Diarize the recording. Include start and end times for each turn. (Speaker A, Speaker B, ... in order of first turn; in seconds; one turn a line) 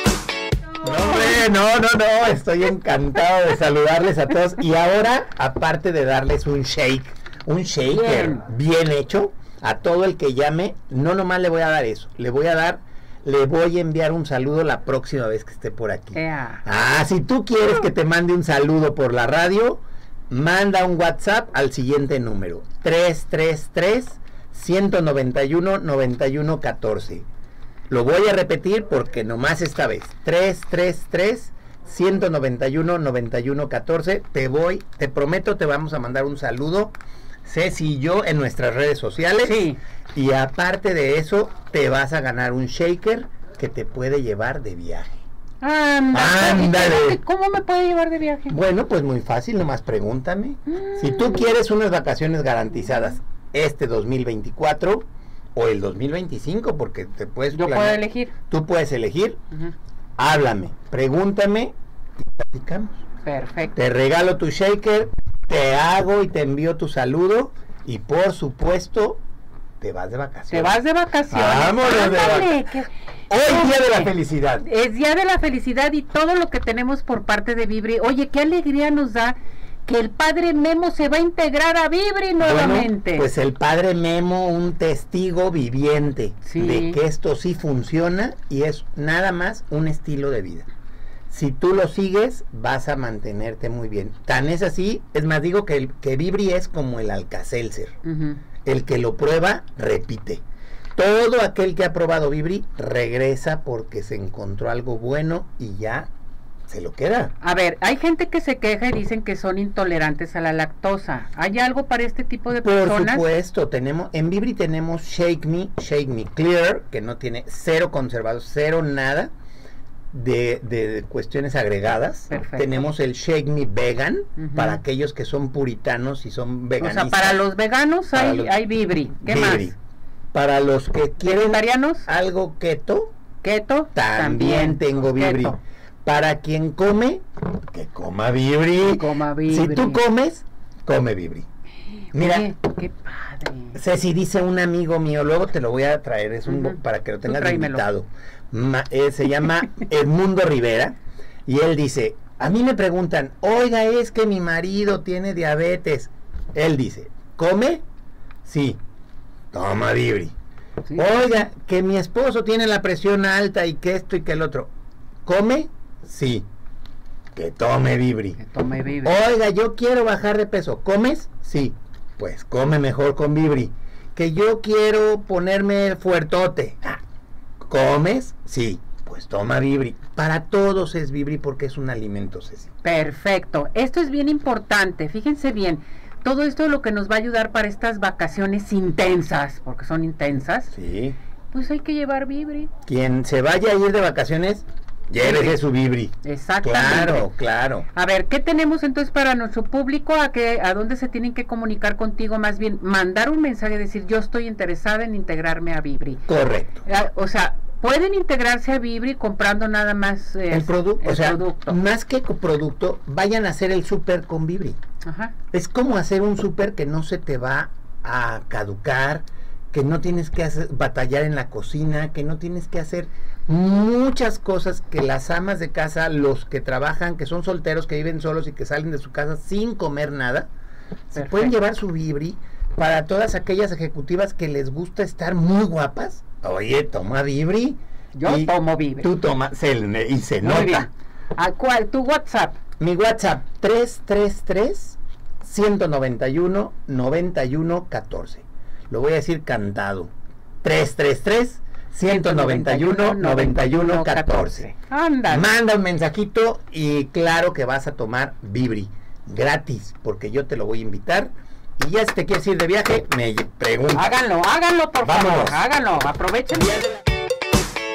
Speaker A: 0.8-27.3
Speaker B: 7.9-8.4
Speaker B: 16.1-16.6
Speaker A: 27.9-45.2
Speaker B: 39.4-39.8
Speaker B: 45.6-48.6
Speaker A: 46.1-47.2
Speaker A: 48.5-59.4
Speaker B: 57.5-58.3
Speaker A: 60.2-61.8
Speaker A: 62.4-63.0
Speaker B: 63.2-63.8
Speaker A: 63.8-69.2
Speaker A: 69.8-70.8
Speaker B: 70.5-72.9
Speaker A: 71.3-72.7
Speaker A: 73.3-74.7
Speaker B: 73.4-83.3
Speaker A: 82.4-90.7
Speaker B: 86.5-87.0
Speaker A: 91.3-98.0
Speaker B: 98.0-98.4
Speaker A: 98.7-100.4
Speaker A: 101.0-106.1
Speaker A: 106.7-107.3
Speaker B: 107.4-113.3
Speaker A: 112.5-119.3
Speaker A: 120.1-127.4
Speaker B: 122.3-122.9
Speaker B: 124.4-124.8
Speaker B: 126.8-129.7
Speaker A: 128.1-128.5
Speaker A: 129.2-129.8
Speaker A: 130.3-133.1
Speaker B: 131.2-132.1
Speaker B: 133.4-135.6
Speaker A: 133.9-141.5
Speaker B: 138.9-140.0
Speaker A: 142.1-142.5
Speaker B: 142.1-143.8
Speaker A: 143.8-157.8
Speaker B: 146.5-147.8
Speaker A: 158.4-158.8
Speaker A: 159.5-160.4
Speaker B: 160.9-161.2
Speaker A: 160.9-164.7
Speaker A: 165.2-166.5
Speaker A: 167.3-168.4
Speaker B: 168.4-169.2
Speaker A: 169.0-177.0
Speaker A: 177.6-182.7
Speaker B: 182.8-190.7
Speaker A: 190.7-191.2
Speaker B: 191.5-192.7
Speaker A: 192.9-197.9
Speaker B: 195.2-195.6
Speaker B: 196.2-197.3
Speaker B: 197.9-206.3
Speaker A: 206.3-206.8
Speaker B: 206.8-211.8
Speaker A: 210.5-214.8
Speaker B: 215.0-215.3
Speaker A: 215.5-230.5
Speaker A: 231.1-240.9
Speaker B: 231.1-231.6
Speaker B: 238.1-239.1
Speaker B: 240.4-242.6
Speaker A: 242.8-250.1
Speaker A: 250.6-254.7
Speaker B: 252.1-255.5
Speaker A: 255.3-264.2
Speaker B: 263.9-266.9
Speaker A: 265.0-265.6
Speaker A: 266.5-266.9